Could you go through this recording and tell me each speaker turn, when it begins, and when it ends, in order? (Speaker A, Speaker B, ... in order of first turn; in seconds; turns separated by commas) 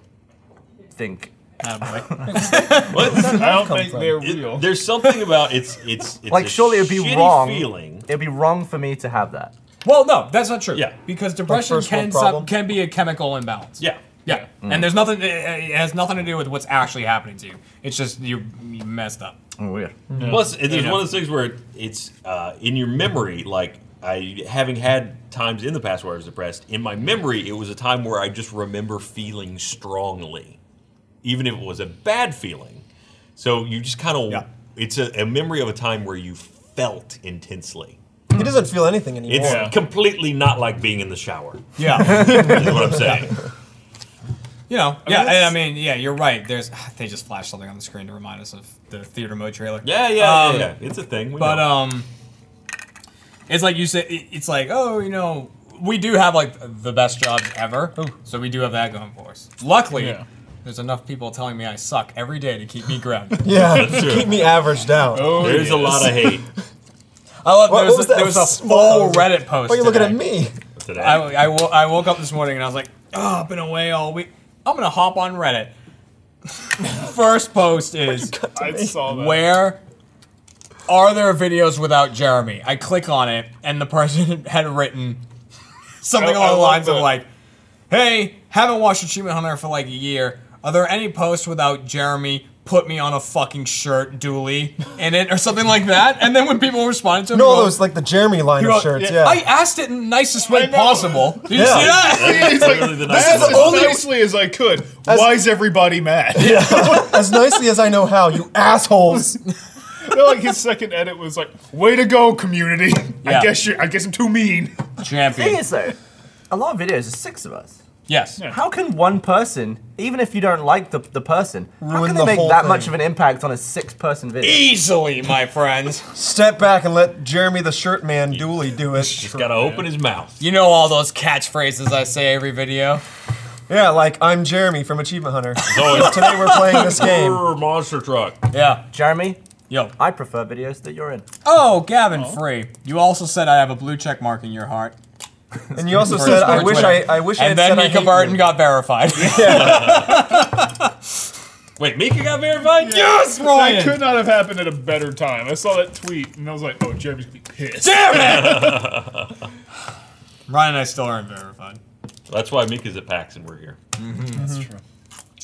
Speaker A: 0.9-1.3, Speaker B: 1.6-3.2, Speaker A: 2.1-2.4, Speaker C: 2.3-4.2, Speaker D: 2.8-8.1, Speaker E: 3.2-4.8, Speaker A: 6.3-9.5, Speaker B: 9.8-19.4, Speaker C: 11.4-12.5, Speaker A: 14.6-14.9, Speaker A: 19.6-20.0, Speaker C: 20.1-20.4, Speaker E: 20.2-20.5, Speaker D: 20.2-30.6, Speaker B: 20.6-21.1, Speaker D: 31.2-32.8, Speaker D: 33.4-38.0, Speaker C: 38.3-39.7, Speaker D: 39.3-43.4, Speaker E: 39.4-39.7, Speaker B: 41.8-43.2, Speaker B: 44.7-50.8, Speaker E: 45.0-45.5, Speaker D: 49.8-51.8, Speaker B: 51.4-52.1, Speaker B: 53.5-63.6, Speaker E: 59.9-60.2, Speaker C: 63.4-66.3, Speaker D: 63.5-64.6, Speaker E: 65.1-66.2, Speaker D: 65.2-66.5, Speaker B: 67.4-70.3, Speaker C: 67.7-70.5, Speaker D: 70.8-71.4, Speaker B: 70.9-75.7, Speaker B: 76.7-78.3, Speaker C: 78.0-79.0, Speaker E: 78.5-79.6, Speaker B: 79.0-79.8, Speaker B: 80.9-85.2, Speaker B: 86.0-87.3, Speaker E: 86.1-87.2, Speaker B: 87.9-97.8, Speaker C: 97.3-99.4, Speaker B: 98.6-102.8, Speaker E: 100.4-107.4, Speaker C: 101.5-102.0, Speaker D: 101.5-104.0, Speaker C: 103.1-104.1, Speaker C: 105.0-105.5, Speaker C: 106.3-109.4, Speaker E: 110.0-114.9, Speaker B: 113.2-113.5, Speaker B: 115.0-115.6, Speaker A: 115.3-116.0, Speaker A: 116.5-117.8, Speaker B: 118.1-118.4, Speaker A: 118.5-124.7, Speaker C: 121.8-123.0, Speaker B: 124.4-126.1, Speaker C: 126.1-129.3, Speaker D: 128.3-130.4, Speaker E: 129.4-129.8, Speaker B: 130.4-133.0, Speaker C: 133.7-137.5, Speaker D: 135.6-138.4, Speaker B: 135.7-136.8, Speaker B: 138.5-138.8, Speaker A: 138.9-139.4, Speaker B: 139.7-139.9, Speaker A: 140.0-141.2, Speaker B: 141.4-144.9, Speaker E: 142.1-142.4, Speaker C: 145.7-148.5, Speaker B: 145.8-150.9, Speaker E: 146.4-146.9, Speaker C: 149.2-149.8, Speaker D: 149.3-150.4, Speaker D: 151.8-153.0, Speaker E: 152.8-158.8, Speaker B: 152.8-154.1, Speaker B: 157.8-158.8, Speaker D: 158.1-159.3, Speaker B: 160.5-161.8, Speaker D: 162.3-163.8, Speaker B: 164.0-164.5, Speaker E: 164.3-164.8